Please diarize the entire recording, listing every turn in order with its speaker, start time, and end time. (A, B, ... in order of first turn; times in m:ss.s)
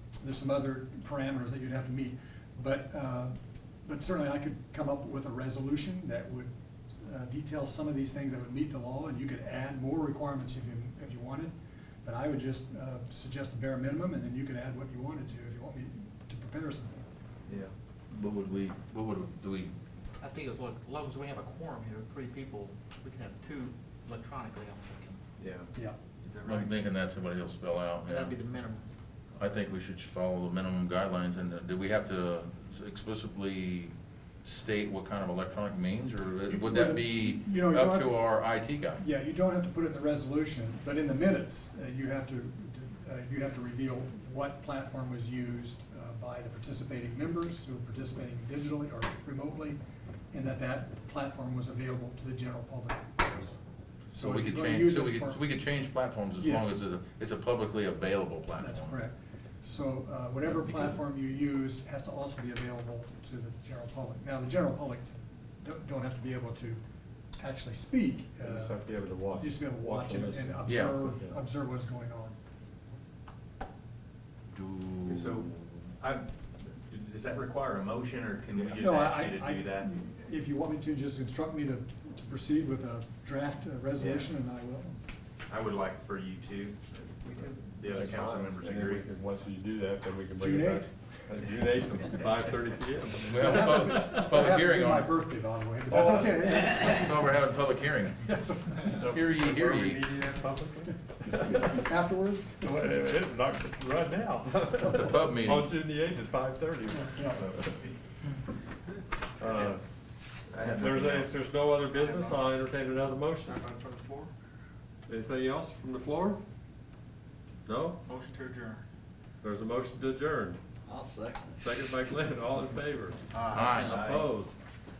0:00.2-0:17.1 A
0:18.1-0:19.7 B
0:20.2-0:25.2 C
0:25.4-0:25.7 D
0:26.2-0:26.8 C
0:26.4-0:28.4 B
0:28.0-0:28.9 C
0:29.4-0:33.9 B
0:34.4-0:39.0 B
0:36.5-0:38.3 A
0:39.0-0:49.8 A
0:50.3-0:53.6 A
0:54.1-0:55.4 A
0:54.1-0:59.0 B
0:56.4-0:56.8 A
0:58.6-1:06.8 A
1:00.6-1:00.9 B
1:07.4-1:12.4 A
1:08.4-1:11.4 E
1:10.6-1:11.0 B
1:14.5-1:15.8 B
1:15.1-1:19.9 D
1:18.8-1:25.0 A
1:24.0-1:24.3 D
1:25.5-1:29.1 D
1:27.8-1:34.2 E
1:30.4-1:30.9 A
1:33.2-1:35.1 B
1:33.4-1:37.2 A
1:35.9-1:36.5 E
1:36.3-1:38.3 B
1:38.2-1:39.1 A
1:38.9-1:41.8 E
1:38.9-1:40.0 B
1:41.4-1:42.7 A
1:42.6-1:47.6 E
1:44.8-1:45.7 B
1:46.9-1:47.4 A
1:47.4-1:48.0 D
1:49.4-1:49.8 E
1:49.4-1:49.7 D
1:50.5-1:51.3 D
1:50.6-1:53.6 E
1:51.8-1:52.4 C
1:53.4-1:54.3 C
1:55.1-1:56.4 E
1:57.6-1:58.0 E
1:58.0-1:58.8 C
1:59.4-2:00.6 E
2:00.9-2:01.5 C
2:01.5-2:03.2 E
2:03.3-2:04.0 C
2:03.5-2:04.0 B
2:03.7-2:04.3 D
2:03.8-2:04.6 E